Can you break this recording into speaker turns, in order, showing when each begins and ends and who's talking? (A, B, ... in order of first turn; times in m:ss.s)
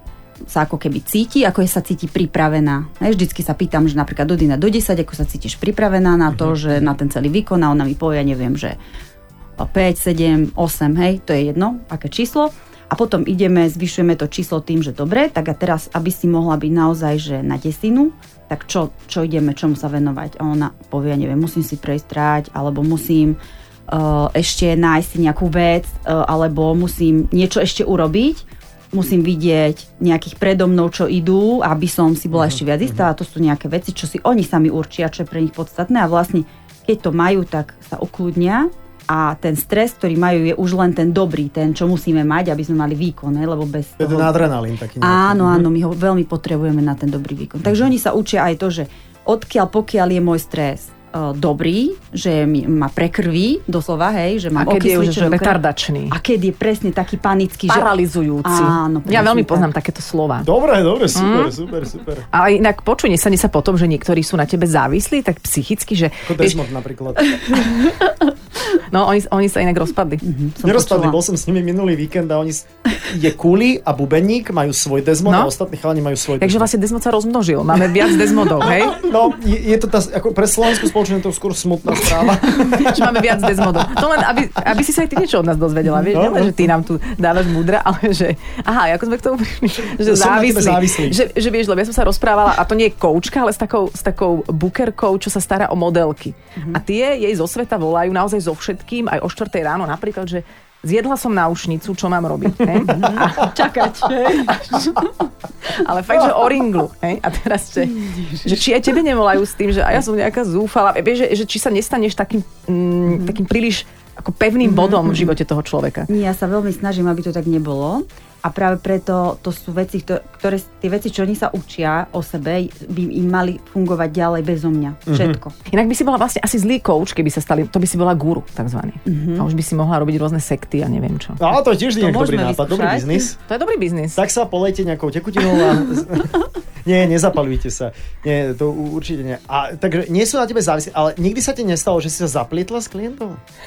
0:00.5-0:08.8 A
0:06.3-0:06.6 B
0:09.6-0:23.4 A
0:23.9-0:44.4 A
0:32.3-0:33.1 B
0:44.0-0:45.7 B
0:45.0-0:57.9 A
0:54.6-0:56.1 C
0:57.7-1:00.5 C
0:58.4-0:59.7 A
1:00.4-1:02.2 B
1:01.1-1:01.6 C
1:02.3-1:06.6 C
1:06.2-1:07.4 B
1:07.4-1:08.1 A
1:08.8-1:10.2 C
1:10.2-1:11.2 A
1:10.6-1:16.7 B
1:15.2-1:15.5 C
1:16.4-1:19.0 C
1:18.6-1:24.0 B
1:22.3-1:43.5 C
1:26.1-1:26.7 B
1:30.0-1:31.2 B
1:42.8-1:43.4 B
1:42.8-1:45.3 A
1:44.4-1:45.0 C
1:45.7-1:56.1 C
1:47.8-1:48.5 A
1:53.0-1:53.4 A
1:54.6-1:55.3 A
1:56.1-2:05.5 A
2:05.1-2:05.4 B
2:05.7-2:11.5 C
2:09.0-2:09.5 A
2:11.4-2:13.4 B
2:12.0-2:13.3 A
2:13.5-2:14.2 C
2:14.1-2:23.4 B